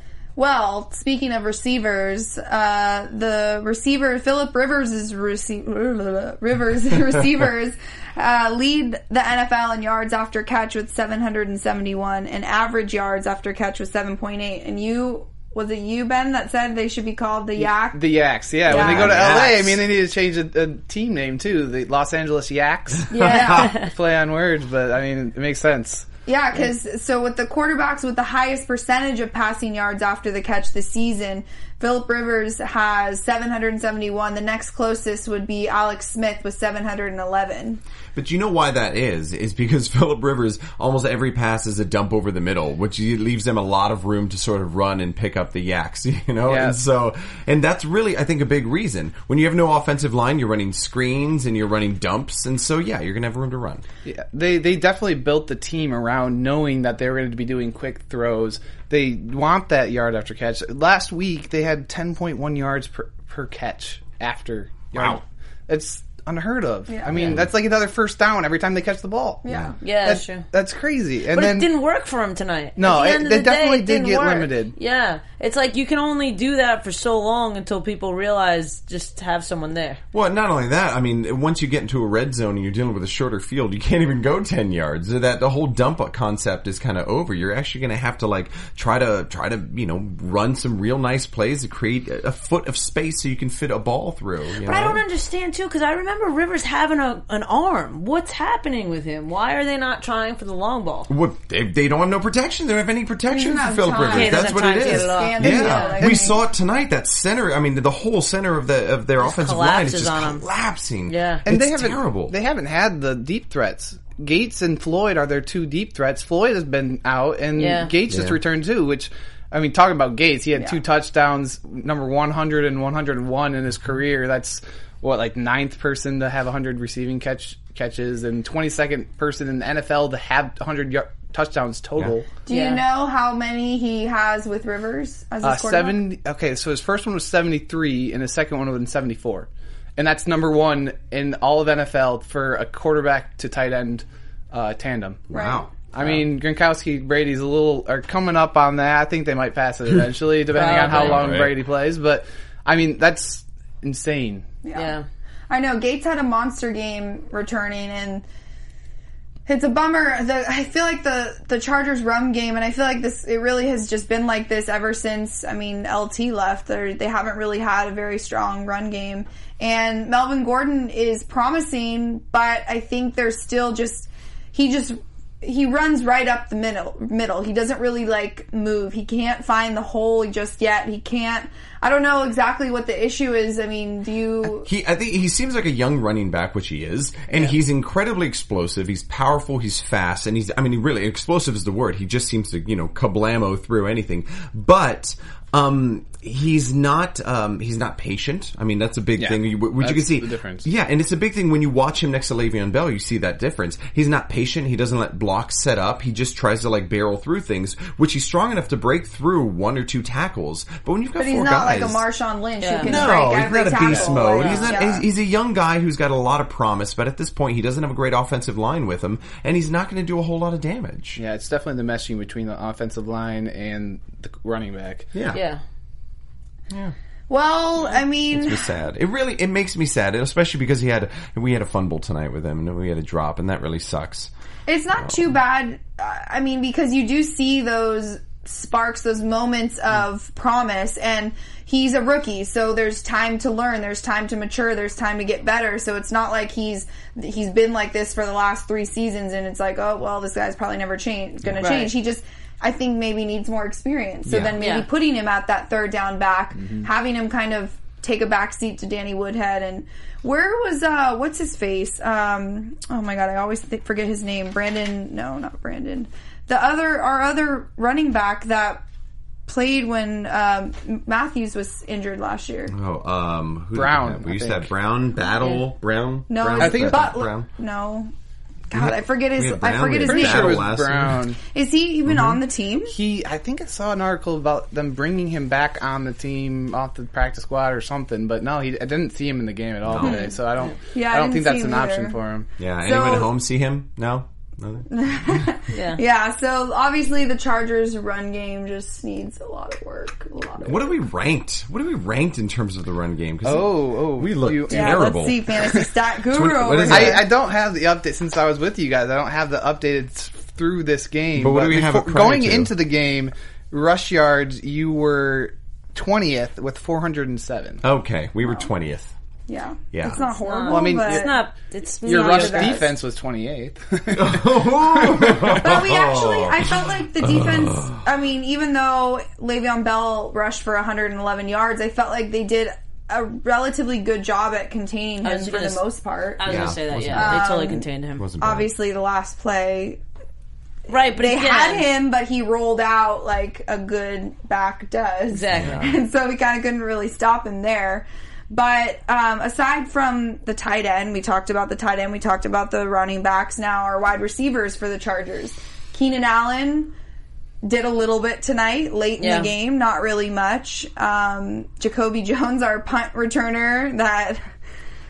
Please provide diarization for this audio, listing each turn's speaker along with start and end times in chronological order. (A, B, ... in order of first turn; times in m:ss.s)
0:00.4-0:18.1 A
0:17.6-0:26.1 B
0:18.7-0:19.8 C
0:18.7-0:19.3 A
0:23.1-0:23.7 A
0:23.1-0:23.9 D
0:23.3-0:23.7 C
0:26.3-0:37.8 A
0:38.2-0:53.8 C
0:46.5-0:46.8 B
0:54.0-1:09.4 B
1:04.9-1:05.2 C
1:06.9-1:07.3 A
1:07.2-1:07.4 C
1:09.4-1:09.8 A
1:09.5-1:09.8 C
1:09.8-1:10.4 D
1:10.0-1:11.7 B
1:11.3-1:20.0 D
1:12.8-1:14.7 B
1:20.1-1:35.0 C
1:34.6-1:41.1 D
1:41.1-1:52.3 C
1:43.3-1:46.4 A
1:44.1-1:46.0 D
1:45.5-1:46.3 B
1:49.2-1:50.4 D
1:51.1-1:51.4 D
1:51.5-2:12.3 B
1:57.6-1:57.9 D
1:58.1-1:58.4 C
2:12.5-2:16.0 A
2:12.5-2:12.8 D
2:15.4-2:25.3 B
2:25.3-2:26.2 C
2:25.3-2:25.7 A
2:25.9-2:34.5 B
2:30.5-2:31.3 D
2:30.8-2:31.6 C
2:34.6-2:35.0 A
2:34.7-2:35.0 D
2:35.5-2:38.2 A
2:39.5-3:04.7 A
3:04.4-3:32.0 C
3:19.2-3:20.7 B
3:31.2-3:35.0 A
3:32.6-3:33.0 D
3:32.8-3:41.2 C
3:34.2-3:34.8 D
3:41.2-3:45.1 B
3:45.1-3:45.4 C
3:45.3-3:45.6 D
3:47.3-3:48.6 A
3:48.3-3:54.3 C
3:54.7-4:28.8 A
4:11.6-4:11.9 B
4:11.6-4:11.9 D
4:14.3-4:14.6 C
4:14.6-4:14.9 D
4:29.5-4:32.7 A
4:32.7-4:37.5 C
4:33.8-4:34.7 B
4:36.3-4:38.1 A
4:36.6-4:37.2 B
4:38.7-4:40.7 A
4:38.7-4:41.3 C
4:40.0-4:41.4 B
4:41.5-4:42.9 A
4:42.1-4:42.4 C
4:42.9-4:52.5 B
4:49.8-4:50.3 C
4:50.0-4:50.4 A
4:50.9-4:52.2 A
4:52.6-4:55.5 C
4:52.8-4:53.3 A
4:54.9-5:00.9 A
4:55.7-4:56.0 D
5:00.6-5:05.4 C
5:03.4-5:05.8 B
5:04.7-5:07.2 A
5:06.3-5:07.2 C
5:06.8-5:17.8 B
5:11.4-5:12.7 C
5:17.8-5:19.1 C
5:19.5-5:21.4 A
5:19.9-5:20.2 C
5:20.3-5:22.9 D
5:20.6-5:21.3 B
5:22.0-5:22.9 A
5:22.0-5:25.6 B
5:24.1-5:28.0 C
5:25.5-5:37.8 A
5:35.2-5:35.8 D
5:36.4-5:38.2 D
5:36.4-5:37.4 C
5:38.2-5:38.7 C
5:38.4-5:40.0 A
5:40.9-5:41.9 D
5:41.1-5:56.9 A
5:45.3-5:46.0 D
5:45.5-5:45.8 C
5:57.6-6:04.5 A
5:59.2-5:59.5 D